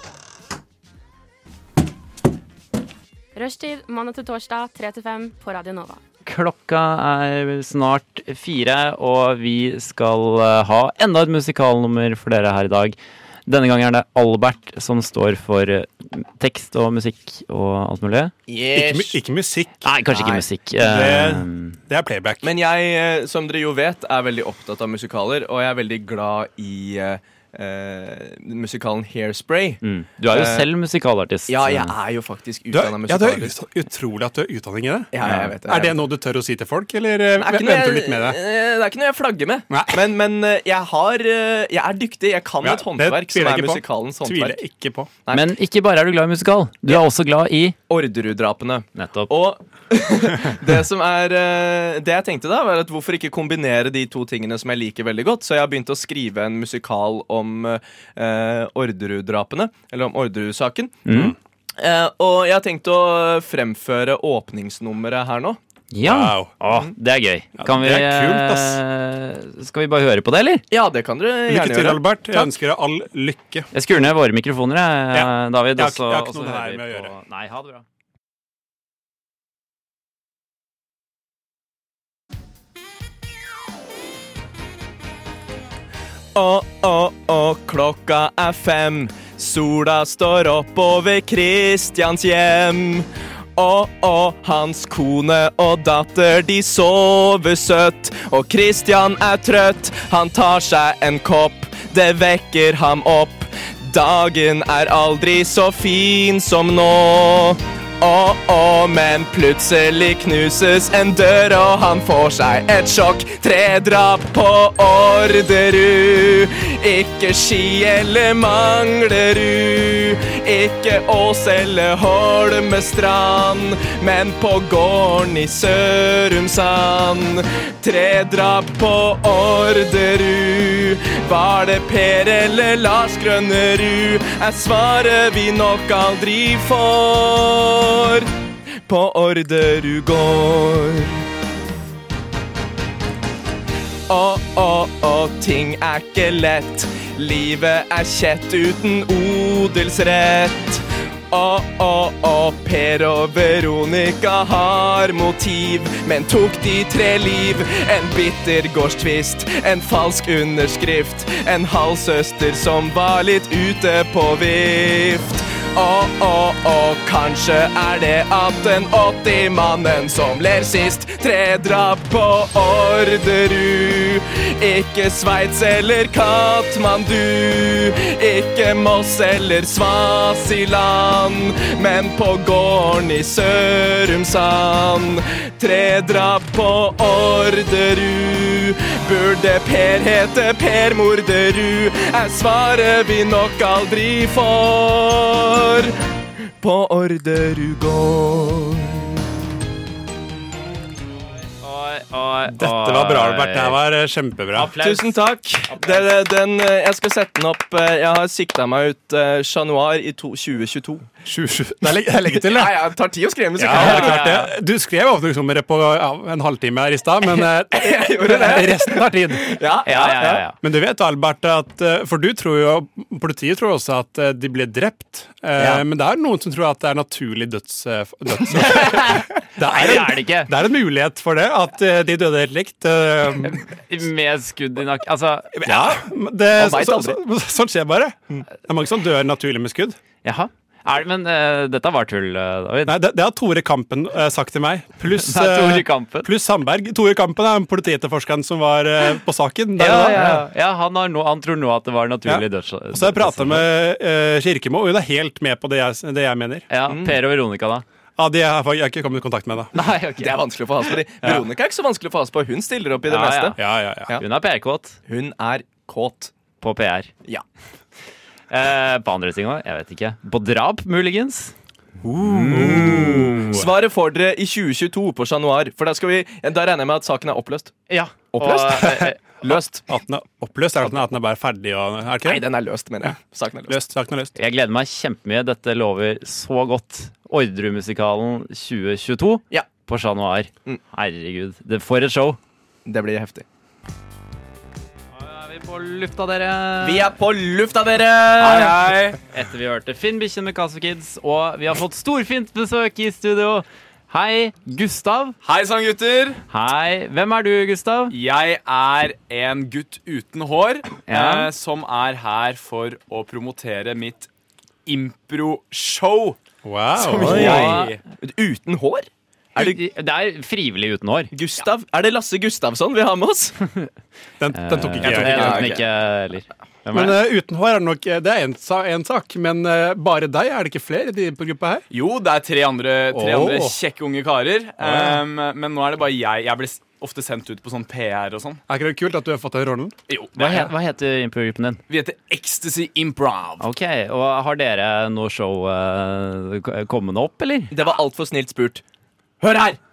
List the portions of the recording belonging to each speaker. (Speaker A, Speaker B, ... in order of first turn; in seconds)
Speaker A: 3.3-6.0
Speaker B: 6.2-18.3, 19.8-21.8, 29.8-31.9, 35.2-35.5, 45.3-47.8, 48.9-49.3, 61.1-61.3, 65.9-70.6, 73.7-77.8, 201.6-203.8, 204.5-206.1, 213.7-214.5, 219.8-220.6, 228.5-230.5, 233.4-236.0, 240.2-243.0, 245.1-246.3, 249.8-253.7, 256.7-257.8, 259.7-260.4, 263.1-263.6, 264.1-265.0, 266.6-267.1, 268.5-271.5, 272.2-273.6, 277.9-279.2, 284.4-292.4, 295.1-297.2, 299.3-305.4, 306.5-308.1, 311.1-311.5, 317.2-317.9, 319.6-321.3, 324.5-327.2, 340.3-341.8, 343.6-347.7
Speaker C: 18.5-19.2, 20.1-20.4, 22.4-30.7, 31.5-33.6, 35.1-36.0, 37.4-44.6, 47.9-61.0, 61.8-65.6, 70.7-72.0, 86.3-138.3, 138.8-141.2, 144.1-196.0, 196.6-199.2, 204.8-211.1, 212.3-214.3, 217.7-220.4, 236.5-237.2, 256.9-257.2, 260.2-264.2, 265.1-266.3, 272.0-277.8, 278.3-279.8, 282.2-283.8, 292.9-293.4, 296.8-298.8, 317.2-319.8, 321.3-323.6, 325.1-325.8, 347.7-348.8, 349.4-349.8
Speaker D: 18.7-19.9, 20.8-22.5, 32.7-38.4, 39.7-40.0, 42.6-45.1, 66.0-66.5, 67.6-68.8, 71.5-73.7, 75.1-77.1, 202.5-204.7, 211.2-212.8, 213.6-219.6, 220.6-233.6, 235.5-240.0, 242.8-250.4, 252.2-256.7, 258.2-259.7, 263.6-264.1, 272.5-273.7, 279.5-282.4, 283.7-284.4, 316.6-317.7, 324.4-325.7, 326.9-331.8, 333.1-333.8, 334.8-335.2, 338.7-339.9
Speaker E: 298.4-299.2, 305.4-306.4, 308.1-314.3, 314.9-316.4, 317.0-318.0, 325.0-325.5, 331.9-338.6, 340.1-340.7, 341.9-343.6